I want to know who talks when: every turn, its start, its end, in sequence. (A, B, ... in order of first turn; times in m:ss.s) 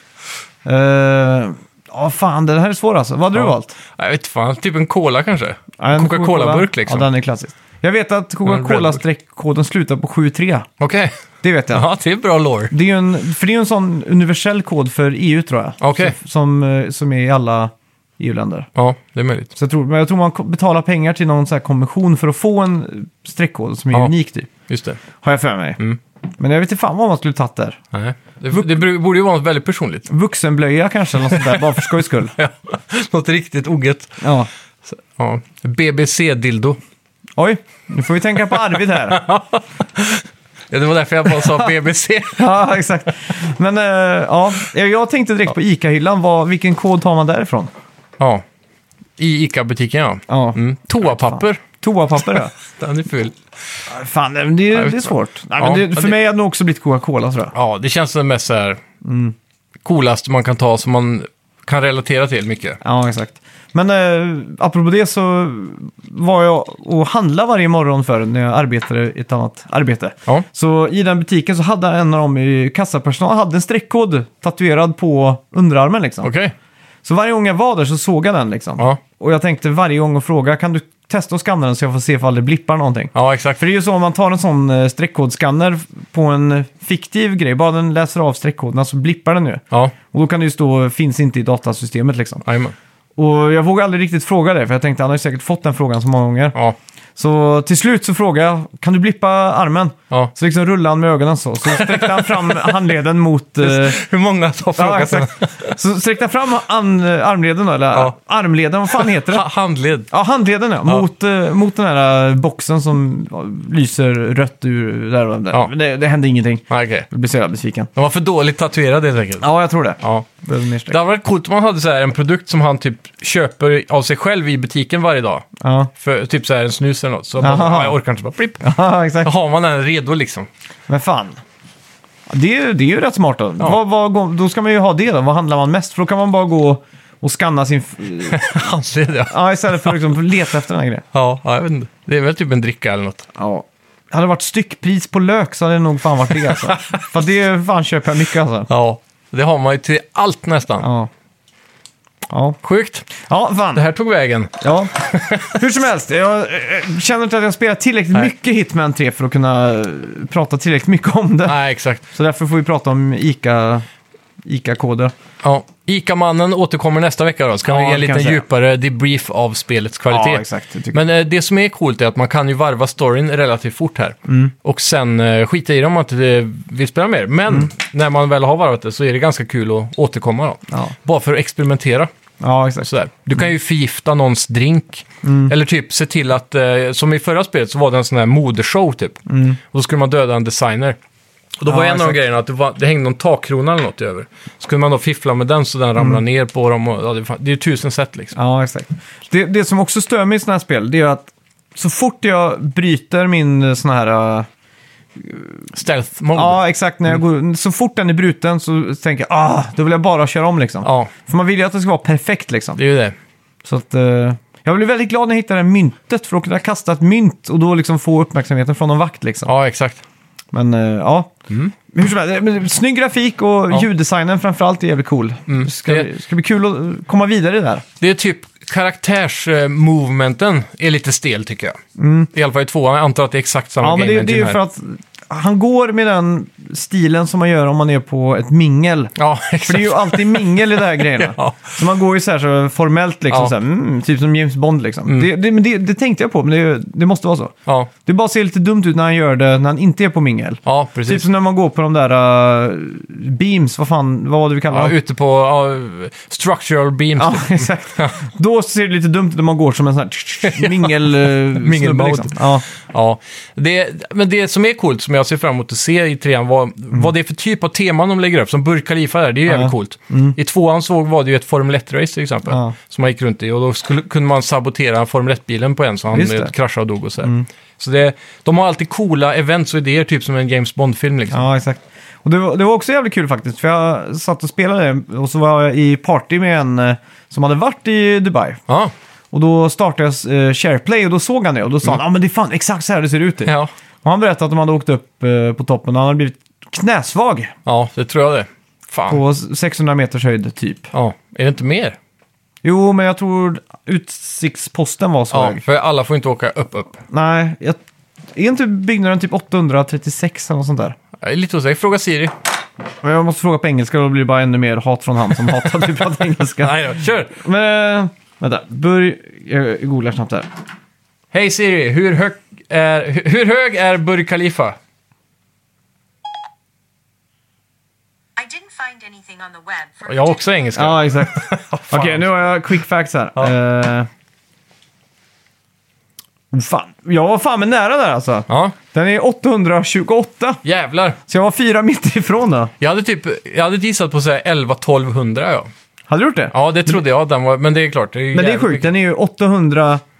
0:00.6-0:03.8 A
0:03.4-0:07.1 B
0:05.8-0:10.7 A
0:08.5-0:09.0 B
0:10.8-0:11.1 B
0:11.4-0:11.9 A
0:11.7-0:12.7 B
0:12.7-0:18.7 A
0:15.8-0:16.2 B
0:18.8-0:19.5 B
0:19.6-0:24.5 A
0:24.7-0:25.0 B
0:25.2-0:25.8 A
0:26.4-0:27.8 A
0:27.9-0:30.1 B
0:30.1-0:32.4 A
0:31.3-0:34.2 B
0:34.2-0:34.5 A
0:34.9-0:36.8 B
0:37.4-0:39.2 A
0:39.1-0:42.5 B
0:41.4-0:41.7 A
0:42.4-0:47.7 A
0:48.2-0:48.4 B
0:49.2-0:51.6 B
0:50.3-0:52.5 A
0:52.3-0:53.4 B
0:53.9-0:57.5 A
0:54.7-0:56.2 B
0:57.5-0:58.8 B
0:59.0-0:59.4 A
0:59.8-1:02.8 B
1:02.8-1:16.3 A
1:16.2-1:16.5 B
1:17.0-1:32.4 A
1:23.2-1:23.6 B
1:32.4-1:32.8 B
1:33.2-1:36.6 A
1:37.2-1:44.0 A
1:41.7-1:42.7 B
1:43.6-1:45.8 B
1:44.8-1:49.5 A
1:48.9-1:50.1 B
1:50.1-1:57.9 A
1:56.7-1:57.1 B
1:58.0-1:59.5 B
1:59.4-2:01.0 A
2:00.0-2:00.3 B
2:00.9-2:05.5 B
2:05.6-2:05.9 A
2:06.0-2:08.7 B
2:07.4-2:08.0 A
2:08.6-2:09.3 A
2:09.2-2:10.5 B
2:10.9-2:11.4 A
2:12.3-2:18.4 A
2:18.3-2:20.1 B
2:19.3-2:21.0 A
2:21.1-2:23.3 B
2:23.4-2:28.7 A
2:26.5-2:27.1 B
2:28.7-2:30.9 B
2:30.8-2:31.1 A
2:32.3-2:32.6 A
2:32.6-2:33.1 B
2:33.2-2:33.8 A
2:33.7-2:35.6 B
2:34.6-2:34.9 A
2:35.5-2:43.9 A
2:41.5-2:42.0 B
2:44.4-2:45.1 A
2:45.4-3:02.1 B
2:47.6-2:48.4 A
2:50.1-2:51.0 A
2:54.3-2:54.5 A
3:02.4-3:03.4 A
3:02.8-3:11.0 B
3:05.2-3:05.5 A
3:09.3-3:09.6 A
3:11.6-3:18.4 B
3:11.7-3:12.2 A
3:18.4-3:24.5 A
3:25.2-3:25.7 A
3:25.7-3:26.6 B
3:26.3-3:32.8 A
3:30.8-3:31.1 B
3:32.8-3:33.2 B
3:33.6-3:39.5 A
3:39.4-3:40.0 B
3:40.5-3:47.8 A
3:45.5-3:46.1 B
3:48.0-3:51.8 B
3:52.0-3:52.3 A
3:52.3-3:54.6 B
3:53.8-3:59.2 A
3:59.2-4:01.8 B
3:59.7-4:07.5 A
4:08.0-4:15.0 A
4:10.6-4:11.3 B
4:14.7-4:18.2 B
4:17.2-4:22.6 A
4:20.5-4:20.9 B
4:21.5-4:41.5 B
4:29.5-4:30.4 A
4:32.5-4:32.7 A
4:36.1-4:36.5 A
4:41.3-4:48.6 A
4:48.7-4:48.9 B
4:49.3-4:57.5 A
4:53.4-4:53.7 B
4:57.7-4:59.2 B
4:59.1-5:00.9 A
5:00.9-5:02.0 B
5:02.6-5:05.6 A
5:05.3-5:07.0 B
5:07.1-5:07.8 A
5:08.4-5:11.0 A
5:11.2-5:12.3 B
5:13.0-5:20.5 A
5:16.6-5:17.4 B
5:21.3-5:24.8 B
5:28.4-5:30.4 C
5:30.1-5:32.6 B
5:30.8-5:34.1 A
5:36.5-5:40.6 A
5:38.5-5:38.8 B
5:40.6-5:41.2 B
5:41.3-5:42.7 A
5:42.8-5:45.7 B
5:46.1-5:47.0 A
5:46.5-5:48.9 B
5:48.3-5:50.0 A